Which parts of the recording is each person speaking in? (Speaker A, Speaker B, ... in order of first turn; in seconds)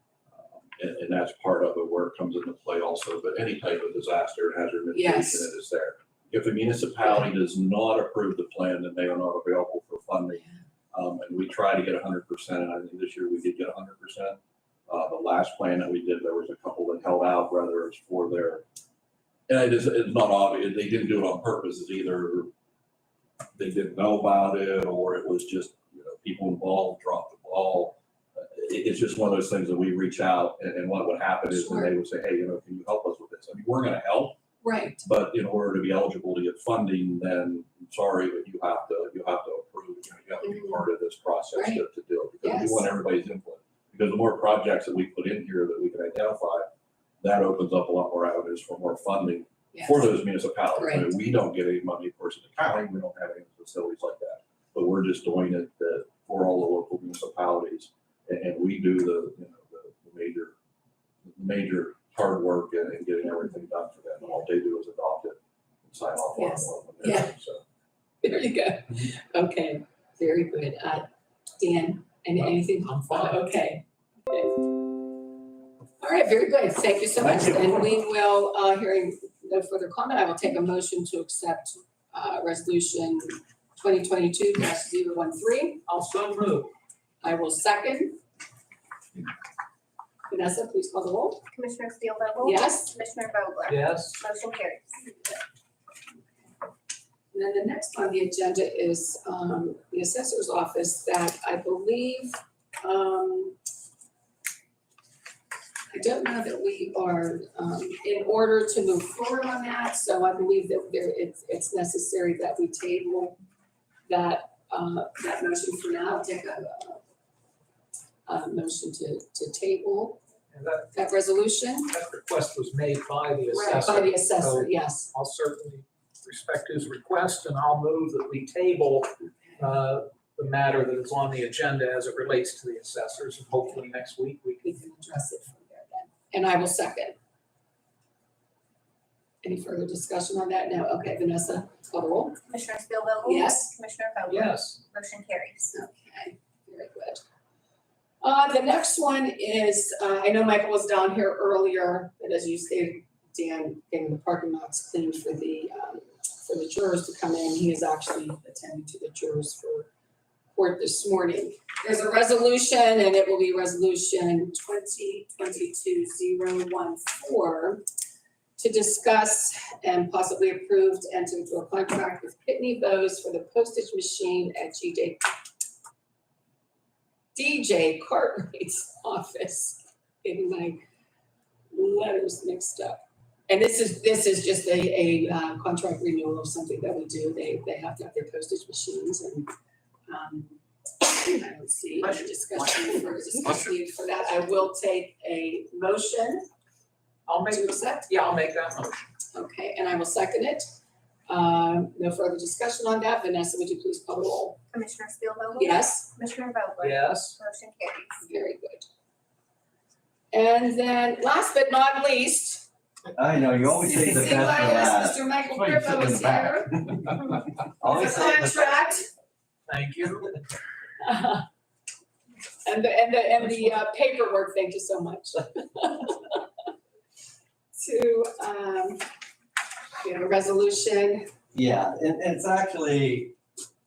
Speaker A: 0.3-10.4, 10.9-18.6, 19.5-22.5, 23.6-34.4, 35.0-46.7, 47.2-60.5, 61.3-67.6
Speaker B: 4.9-5.5, 10.3-10.6, 31.5-31.9, 34.6-35.0, 40.4-40.8, 41.5-41.8, 42.4-42.9, 49.7-50.1, 50.8-51.1, 66.4-67.3, 68.2-71.1, 71.6-74.6, 76.0-85.8, 87.2-88.2, 90.3-91.4, 92.4-92.9, 95.0-95.4, 97.3-103.6, 105.9-113.4, 114.1-117.0, 118.3-120.2, 120.9-121.9, 123.5-125.1, 129.2-129.7, 134.6-137.2, 139.4-142.4, 143.2-143.7, 145.7-147.2, 148.2-159.9, 160.5-167.8, 168.6-175.3, 177.3-180.8, 181.7-189.5, 190.1-196.5, 197.5-198.1, 199.3-200.7, 201.3-204.6, 205.6-206.1, 208.2-208.9, 210.3-212.7, 213.8-217.2, 217.8-219.1, 221.0-221.4, 222.7-226.4, 227.7-229.0, 230.0-231.3
Speaker C: 72.8-73.5, 85.9-86.7, 93.7-94.2, 120.5-120.9, 121.9-134.7, 144.3-144.8, 192.0-192.4, 197.3-199.0, 206.8-207.4, 219.7-220.4
Speaker D: 91.5-94.9, 142.5-145.7, 204.7-208.2
Speaker E: 213.2-216.5, 217.8-218.7, 231.5-233.4